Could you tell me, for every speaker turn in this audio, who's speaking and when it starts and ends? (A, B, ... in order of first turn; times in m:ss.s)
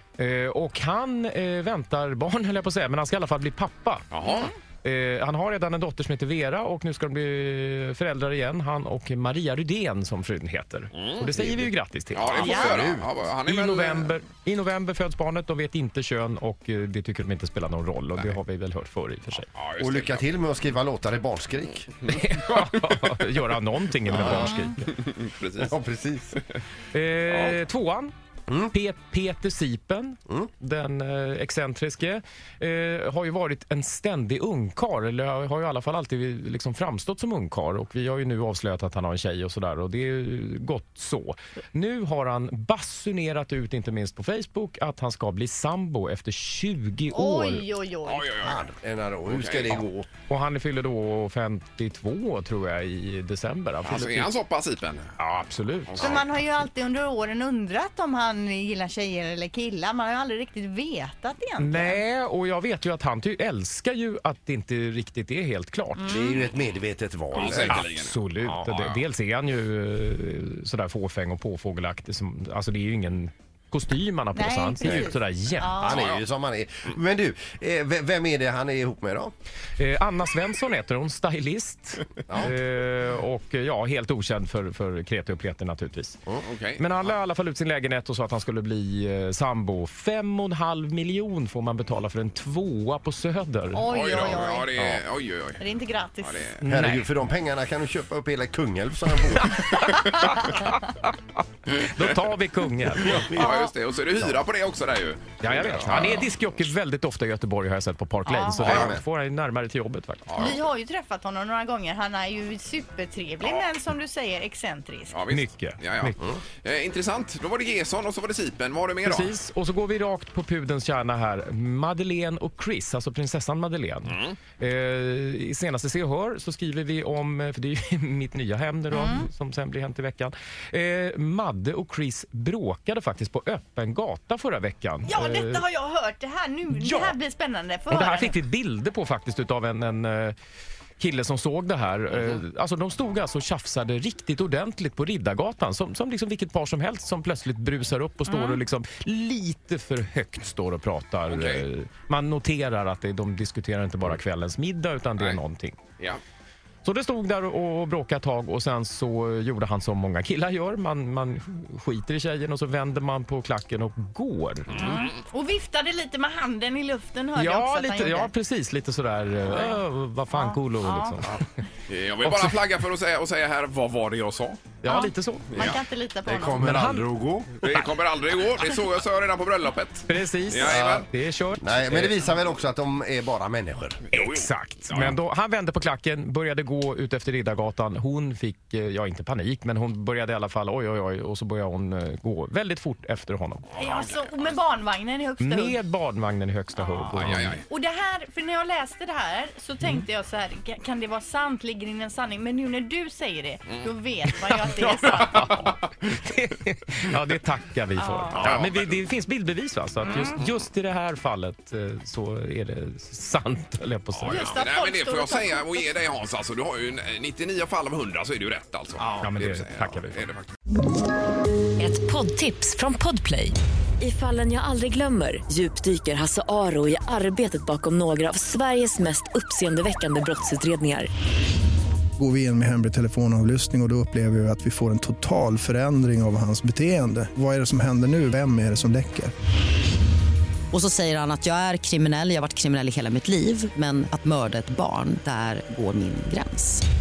0:00.2-0:19.5 A
0:04.1-0:04.5 B
0:10.9-0:11.6 B
0:12.1-0:14.2 B
0:12.4-0:12.8 C
0:19.5-0:20.3 B
0:19.8-0:21.9 D
0:22.1-0:24.9 A
0:22.3-0:23.0 B
0:24.1-0:24.4 D
0:24.8-0:25.7 B
0:25.6-0:26.4 D
0:26.9-0:28.1 A
0:28.7-0:47.7 A
0:47.1-0:48.3 C
0:48.0-0:48.6 B
0:48.4-0:50.1 D
0:49.3-0:49.8 B
0:50.3-0:54.3 A
0:53.8-0:55.1 B
0:55.2-0:56.4 A
0:55.9-0:56.2 B
0:56.0-1:02.0 C
1:01.6-1:06.2 A
1:06.0-1:06.4 C
1:06.1-1:07.8 D
1:07.3-1:09.0 B
1:07.4-1:15.8 A
1:14.3-1:16.0 C
1:15.8-1:19.3 D
1:16.0-1:16.2 B
1:19.8-1:26.2 A
1:22.3-1:22.5 D
1:26.4-1:27.0 B
1:26.8-1:33.9 A
1:33.7-1:34.8 C
1:33.9-1:35.7 B
1:35.6-1:36.6 C
1:36.2-1:36.6 B
1:36.6-1:37.1 A
1:36.7-1:39.7 D
1:39.6-1:40.7 A
1:41.7-1:43.5 A
1:43.0-1:46.3 B
1:45.4-1:50.6 A
1:48.2-1:48.7 C
1:48.6-1:49.0 D
1:48.6-1:49.0 B
1:50.2-1:50.6 B
1:50.4-1:55.2 C
1:53.4-1:53.7 B
1:55.1-1:59.3 B
1:55.3-1:56.2 A
1:59.0-2:15.6 A
2:04.0-2:04.4 B
2:08.9-2:09.3 C
2:15.1-2:18.4 C
2:16.7-2:17.1 A
2:17.9-2:20.4 A
2:21.0-2:35.8 A
2:28.3-2:28.6 C
2:31.3-2:31.7 B
2:36.8-2:45.0 A
2:44.7-2:45.2 B
2:44.8-2:48.3 C
2:47.3-2:51.4 A
2:50.3-2:51.2 C
2:51.9-2:54.8 B
2:52.2-2:52.5 A
2:54.8-2:55.7 A
2:54.8-2:56.7 C
2:55.6-2:55.8 B
2:56.2-2:57.6 D
2:56.6-2:57.1 A
2:57.6-3:01.1 B
3:00.1-3:02.2 A
3:00.6-3:01.1 D
3:01.6-3:04.0 D
3:04.1-3:05.1 B
3:04.1-3:13.6 A
3:13.7-3:14.6 B
3:13.8-3:15.8 C
3:15.4-3:17.6 A
3:16.8-3:25.6 C
3:17.1-3:17.6 B
3:24.5-3:34.6 A
3:28.0-3:28.5 C
3:28.4-3:29.0 B
3:30.0-3:30.3 C
3:30.1-3:30.5 B
3:34.1-3:40.5 B
3:34.3-3:35.9 C
3:39.2-3:40.2 A
3:41.8-3:51.1 E
3:52.2-3:59.3 F
4:00.7-4:06.8 G